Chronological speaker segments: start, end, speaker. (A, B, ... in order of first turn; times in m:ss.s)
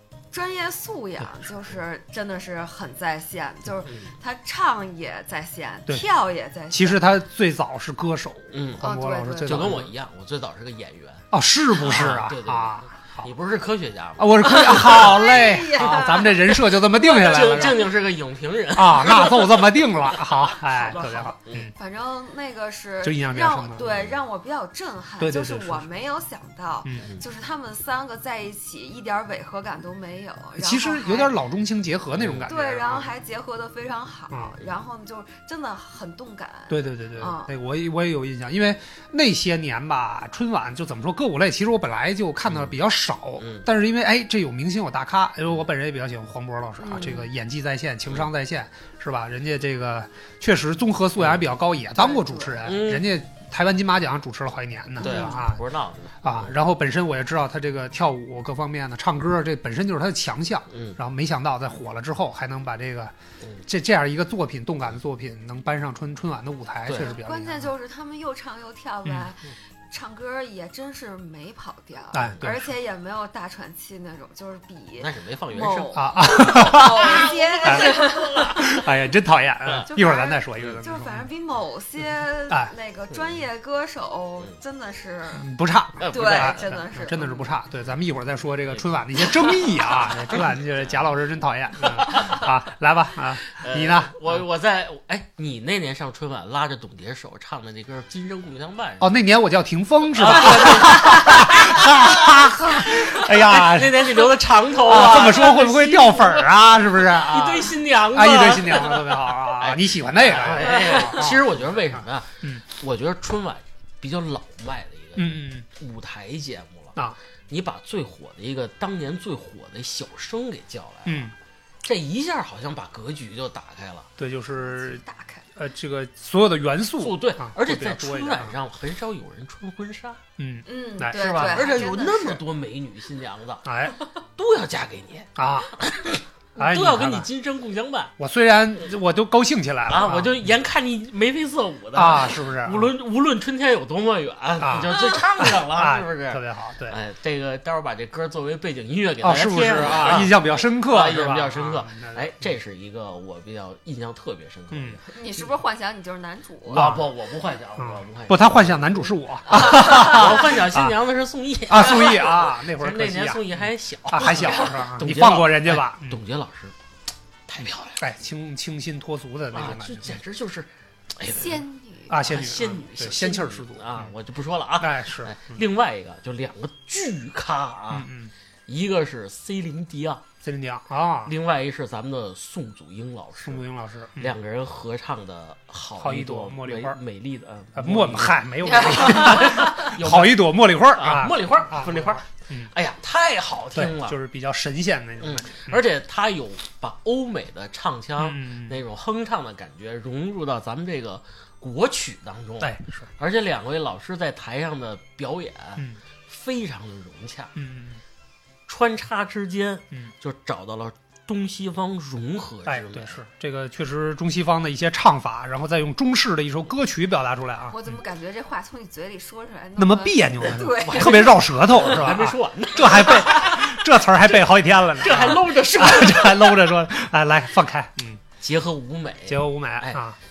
0:00.3-0:07.1 A
0:06.7-0:09.9 B
0:08.5-0:08.8 C
0:08.8-0:09.7 A
0:09.4-0:11.2 C
0:11.3-0:13.3 B
0:11.8-0:15.2 C
0:14.2-0:17.9 B
0:14.4-0:16.5 A
0:15.8-0:20.5 C
0:18.7-0:21.7 B
0:20.7-0:31.4 A
0:23.0-0:23.9 B
0:23.8-0:24.2 C
0:25.2-0:25.8 B
0:30.6-0:33.1 B
0:32.1-0:32.5 C
0:32.4-0:37.5 A
0:36.7-0:55.6 B
0:42.4-0:42.7 C
0:43.4-0:43.7 C
0:46.8-0:47.3 A
0:51.2-0:51.4 C
0:52.0-0:52.7 A
0:52.6-0:53.1 C
0:55.0-0:55.4 A
0:55.0-0:56.5 C
0:56.2-1:03.1 B
1:00.7-1:01.0 C
1:03.6-1:07.7 B
1:06.8-1:07.2 C
1:07.0-1:18.8 A
1:12.1-1:12.7 B
1:15.0-1:18.8 C
1:15.9-1:21.2 B
1:19.9-1:25.5 A
1:25.4-1:34.2 B
1:26.0-1:26.8 C
1:26.1-1:27.5 A
1:28.6-1:31.0 C
1:31.8-1:32.5 C
1:33.5-1:39.1 C
1:39.0-1:52.6 B
1:40.1-1:57.0 C
1:55.2-1:55.6 B
1:57.5-2:01.3 C
2:01.0-2:01.3 B
2:01.8-2:04.1 C
2:04.2-2:05.0 B
2:04.5-2:05.5 A
2:05.6-2:08.6 B
2:07.0-2:10.2 C
2:10.4-2:11.5 B
2:10.6-2:12.4 A
2:11.1-2:13.7 C
2:13.6-2:14.0 B
2:14.4-2:18.1 C
2:15.4-2:15.7 B
2:16.6-2:17.3 B
2:18.2-2:20.4 B
2:19.9-2:35.4 C
2:21.9-2:22.9 B
2:24.6-2:27.0 B
2:29.2-2:32.4 B
2:34.7-2:35.0 B
2:35.1-2:37.0 A
2:36.7-2:46.7 C
2:36.7-2:37.1 B
2:37.8-2:40.9 B
2:39.5-2:40.2 A
2:41.7-2:43.5 B
2:44.1-2:46.2 B
2:44.4-2:44.7 A
2:47.5-2:48.0 C
2:48.0-2:50.2 B
2:49.5-2:51.6 C
2:51.2-2:52.2 A
2:52.1-2:54.1 B
2:52.1-2:58.1 C
2:54.8-2:55.6 B
2:57.9-2:58.3 B
2:58.7-3:00.2 C
3:00.4-3:01.3 B
3:01.2-3:03.6 C
3:03.4-3:04.4 B
3:04.2-3:14.2 C
3:06.0-3:07.0 B
3:07.8-3:12.7 B
3:08.6-3:09.9 A
3:13.7-3:15.8 B
3:15.2-3:27.5 C
3:18.2-3:18.8 B
3:22.6-3:23.1 B
3:27.6-3:28.0 B
3:28.7-3:33.2 C
3:32.6-3:37.8 B
3:37.7-3:41.4 A
3:39.8-3:48.2 B
3:40.6-3:46.7 C
3:48.4-3:50.0 C
3:49.3-3:50.2 B